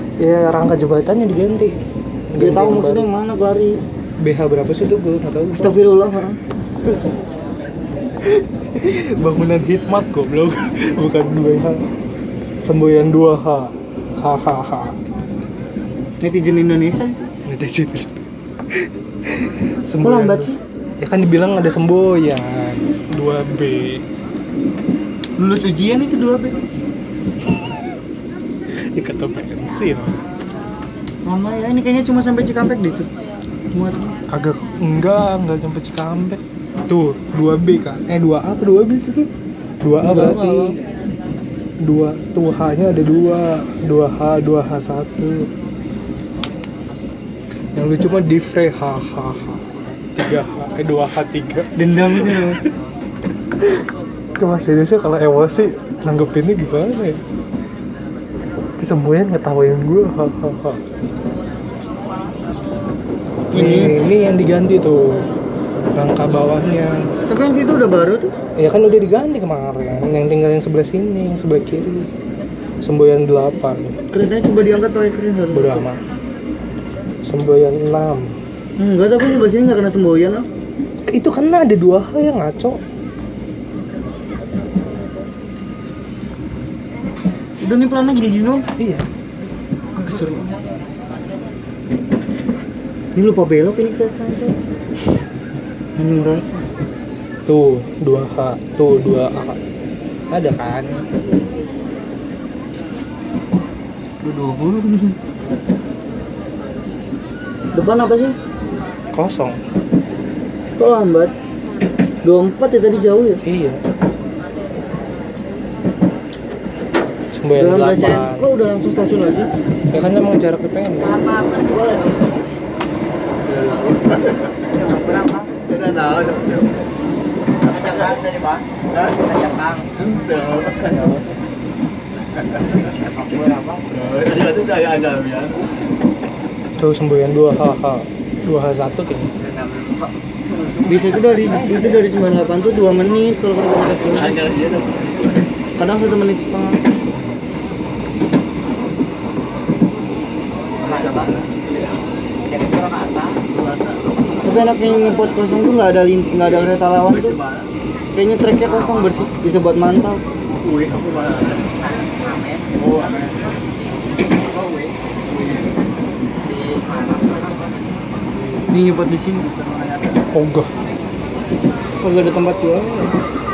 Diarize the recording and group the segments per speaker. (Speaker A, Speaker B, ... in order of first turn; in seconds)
Speaker A: 0.2-3.1, 4.2-5.8, 8.3-12.1, 12.6-15.0, 17.5-18.1, 18.8-24.0, 28.7-30.2, 34.3-39.3, 39.8-40.8, 41.8-45.5, 47.8-49.6, 50.1-51.7, 52.2-52.7, 54.4-57.2, 58.8-60.8, 63.5-65.3, 65.9-67.2, 68.6-72.1, 72.8-74.0, 75.5-76.0, 77.2-78.3, 81.0-82.8, 88.8-89.0, 97.5-99.6, 100.3-101.1, 109.1-109.6, 113.5-113.8, 117.3-118.5, 119.9-121.3, 136.8-139.3, 170.3-170.7
Speaker B: 2.4-3.8, 5.6-6.4, 16.2-17.2, 20.0-20.6, 25.4-26.6, 31.2-33.1, 33.7-34.2, 40.0-40.8, 51.8-52.6, 63.5-64.0, 67.3-68.3, 74.1-75.9, 78.8-80.5, 87.6-88.7, 90.0-90.4, 93.2-94.6, 96.0-96.6, 104.2-105.2, 107.7-108.3, 110.8-111.3, 112.2-113.4, 117.6-119.5, 140.8-144.4, 145.8-146.8, 154.4-157.4, 158.2-160.2, 168.7-169.7, 172.0-173.2
Speaker C: 123.6-123.9, 125.7-126.7, 130.1-131.1, 134.0-135.7, 144.3-145.1, 150.9-151.3, 160.7-161.6, 162.8-163.2
Speaker D: 124.7-125.5, 127.7-128.8, 129.3-130.1, 133.1-133.9, 139.6-140.1, 150.9-151.3, 152.5-153.4, 161.8-162.9, 164.5-164.9, 166.5-167.7